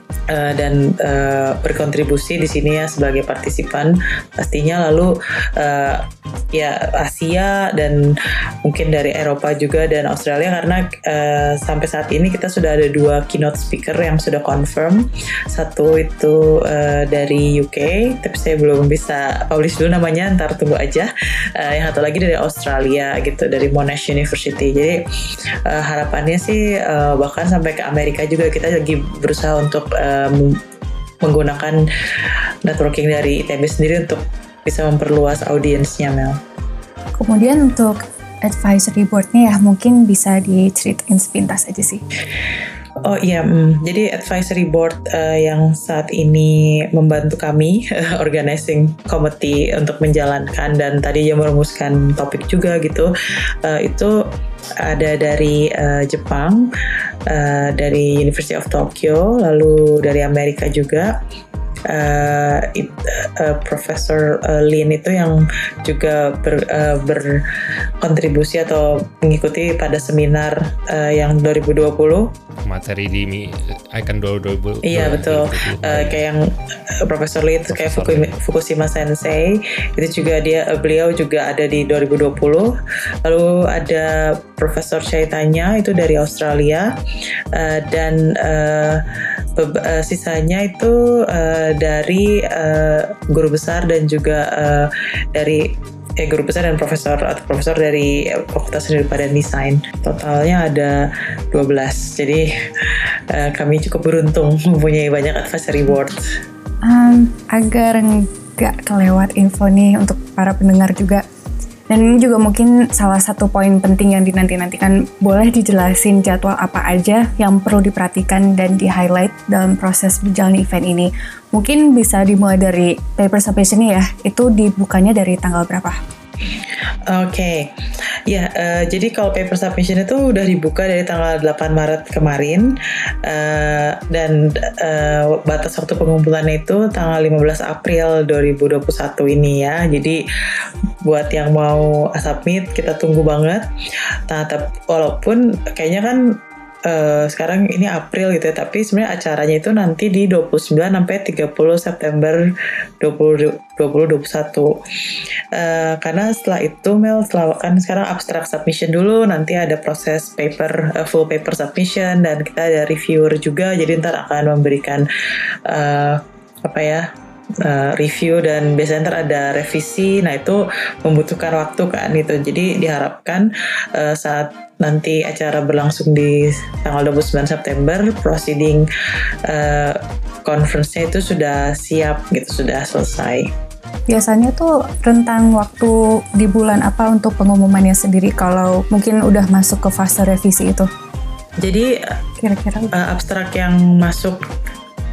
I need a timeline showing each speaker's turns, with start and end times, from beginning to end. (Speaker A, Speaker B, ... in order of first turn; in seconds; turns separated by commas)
Speaker A: 0.3-25.0, Speaker A: 25.6-30.6, Speaker A: 31.2-31.8, Speaker A: 32.6-36.4, Speaker B: 37.2-42.0, Speaker A: 43.0-53.1, Speaker A: 53.6-54.2, Speaker A: 54.8-56.7, Speaker A: 57.3-61.1, Speaker A: 61.9-67.4, Speaker A: 68.0-72.3, Speaker C: 72.6-76.2, Speaker A: 74.8-86.9, Speaker C: 77.7-78.3, Speaker A: 87.5-89.0, Speaker A: 89.5-102.5, Speaker A: 103.3-106.3, Speaker B: 106.8-111.2, Speaker B: 111.9-126.0, Speaker A: 127.1-127.7, Speaker A: 128.3-132.7, Speaker A: 133.2-140.2, Speaker A: 141.0-143.6, Speaker A: 144.3-146.3, Speaker A: 146.8-152.4, Speaker A: 153.0-154.8, Speaker A: 155.5-165.1, Speaker A: 165.7-167.0, Speaker A: 167.6-178.9, Speaker A: 179.5-183.5, Speaker B: 184.1-190.9, Speaker A: 191.6-192.2, Speaker B: 192.4-192.9, Speaker A: 192.9-194.4